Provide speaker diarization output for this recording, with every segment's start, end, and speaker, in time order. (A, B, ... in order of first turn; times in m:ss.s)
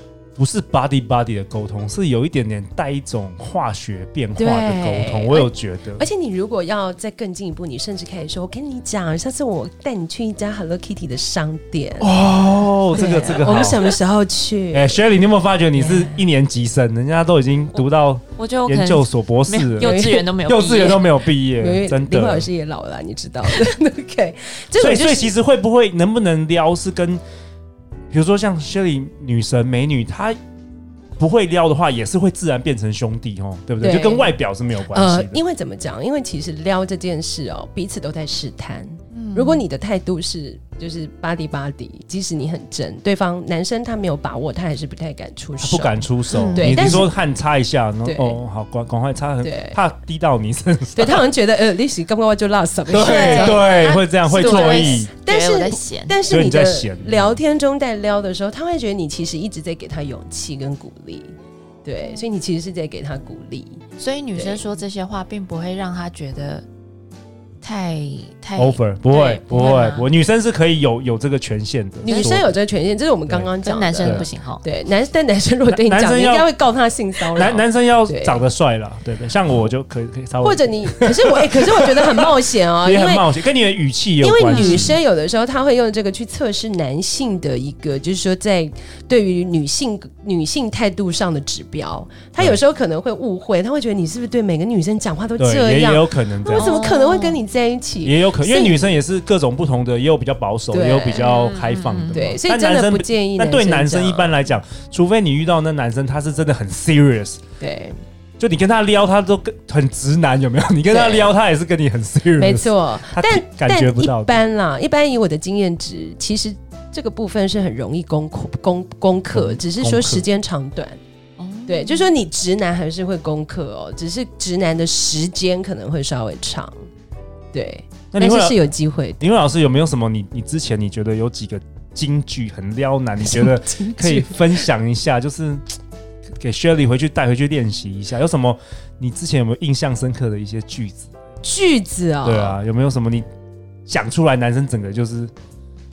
0:00.4-0:06.0 A
0:04.4-0:12.1 B
0:12.0-0:14.0 A
0:12.9-0:15.0 B
0:14.7-0:22.5 A
0:15.8-0:16.2 B
0:18.4-0:21.1 C
0:19.8-0:20.3 B
0:21.4-0:25.3 B
0:24.8-0:27.2 A
0:28.1-0:30.4 A
0:31.2-0:35.4 A
0:33.8-0:34.4 B
0:34.9-0:47.1 B
0:39.1-0:39.6 C
0:45.6-0:51.2 A
0:46.3-0:47.0 C
0:48.0-0:48.4 B
0:49.4-0:49.8 B
0:50.9-1:03.8 B
0:52.9-0:55.1 A
0:53.0-0:56.2 C
0:56.3-0:57.4 A
1:04.0-1:06.6 C
1:04.3-1:04.6 B
1:07.6-1:10.0 C
1:08.6-1:12.5 A
1:12.0-1:18.4 B
1:12.1-1:12.4 C
1:13.6-1:14.6 C
1:14.0-1:14.3 A
1:15.7-1:16.5 A
1:17.3-1:22.3 A
1:20.4-1:23.3 B
1:22.8-1:25.0 A
1:24.2-1:39.0 B
1:24.4-1:25.0 C
1:35.4-1:36.7 A
1:36.5-1:37.4 C
1:38.0-1:47.4 A
1:40.7-1:41.3 B
1:41.1-1:42.2 C
1:42.1-1:44.3 B
1:47.6-1:48.0 B
1:48.4-1:54.4 A
1:50.8-1:51.3 B
1:52.4-2:01.0 B
1:59.3-2:00.2 A
2:01.4-2:02.1 C
2:01.7-2:06.8 B
2:07.5-2:09.2 B
2:08.1-2:08.6 A
2:09.2-2:15.6 A
2:13.2-2:14.6 B
2:16.4-2:21.1 A
2:21.4-2:22.6 B
2:22.2-2:23.3 A
2:23.9-2:25.3 A